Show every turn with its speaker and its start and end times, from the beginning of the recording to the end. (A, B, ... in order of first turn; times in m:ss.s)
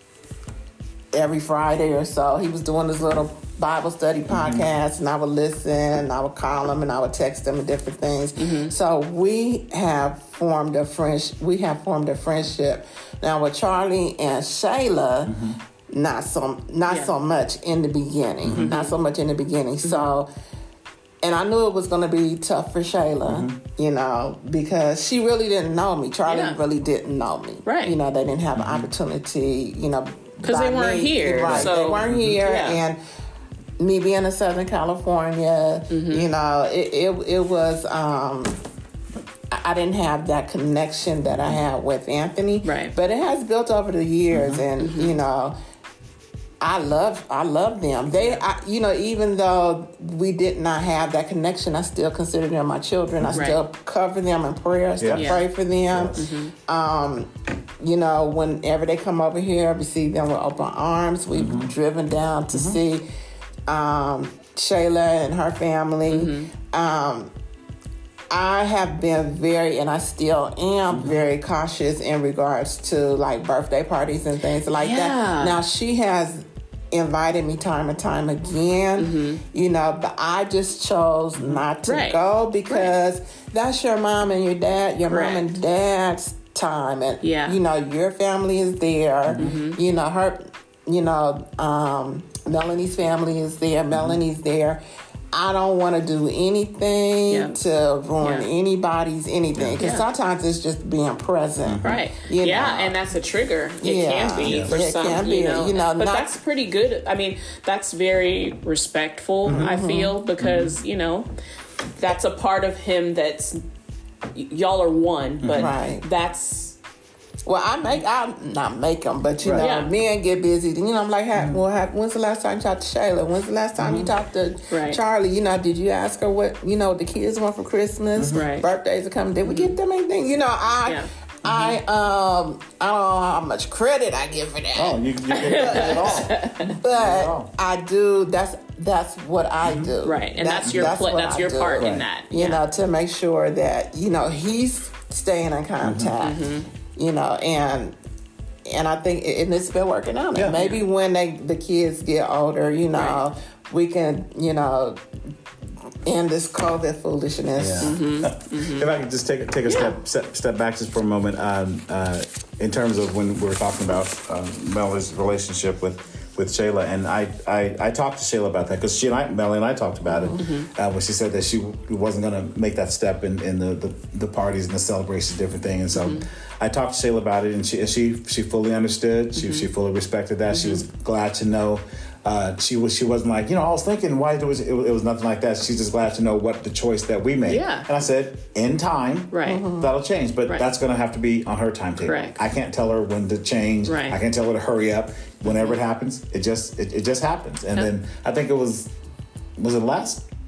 0:01.1-0:20.3 A
0:04.3-0:04.7 B
0:08.4-0:08.7 C
0:15.3-0:15.6 B
0:16.9-0:17.1 C
0:18.5-0:19.0 C
0:19.8-0:20.1 C
0:21.2-0:33.0 A
0:23.3-0:23.6 B
0:26.3-0:26.6 C
0:27.7-0:28.0 C
0:28.6-0:28.9 B
0:30.4-0:32.8 C
0:31.5-0:32.4 B
0:33.8-0:38.6 A
0:35.9-0:36.3 C
0:39.5-0:45.6 A
0:42.6-0:42.9 C
0:44.3-0:44.6 B
0:44.8-0:45.2 C
0:46.6-1:03.0 A
0:53.3-0:53.6 C
0:55.0-0:56.3 B
0:55.1-0:55.4 C
0:56.2-0:56.5 C
1:01.3-1:01.7 B
1:02.5-1:02.8 B
1:03.7-1:07.3 A
1:06.1-1:06.5 C
1:08.3-1:34.8 A
1:14.7-1:15.6 C
1:19.0-1:19.4 C
1:21.8-1:22.9 C
1:25.1-1:25.5 C
1:27.2-1:27.6 C
1:29.4-1:29.8 C
1:33.9-1:34.2 B
1:35.3-1:43.0 A
1:37.3-1:37.6 C
1:38.2-1:38.5 C
1:39.8-1:40.1 C
1:41.6-1:42.0 B
1:41.8-1:51.3 C
1:43.8-1:46.4 A
1:44.4-1:44.8 B
1:49.4-1:49.7 B
1:49.5-1:50.2 A
1:50.4-1:50.8 B
1:52.0-1:53.6 C
1:54.3-1:56.8 C
1:55.4-1:55.7 B
1:55.6-1:56.0 A
1:57.5-2:28.0 A
1:59.6-1:59.9 C
2:01.4-2:01.6 B
2:03.8-2:04.1 B
2:04.7-2:05.0 C
2:08.3-2:08.7 C
2:09.4-2:09.8 C
2:11.4-2:11.8 B
2:14.8-2:17.5 B
2:15.3-2:16.8 C
2:19.6-2:19.9 B
2:20.0-2:22.6 C
2:20.7-2:20.9 B
2:21.8-2:22.0 B
2:25.8-2:26.2 B
2:26.2-2:26.7 C
2:28.7-2:35.0 A
2:30.3-2:30.6 B
2:30.5-2:30.8 C
2:32.9-2:33.2 C
2:36.0-2:38.0 A
2:37.6-3:18.9 B
2:37.8-2:38.9 C
2:39.7-2:40.0 C
2:50.1-2:50.4 A
2:50.4-2:50.7 C
2:55.9-2:56.3 C
2:59.4-2:59.7 C
3:00.5-3:00.8 C
3:07.5-3:07.9 C
3:09.3-3:09.6 C
3:09.5-3:09.9 A
3:12.0-3:12.4 C
3:13.9-3:14.2 C
3:19.6-3:20.3 B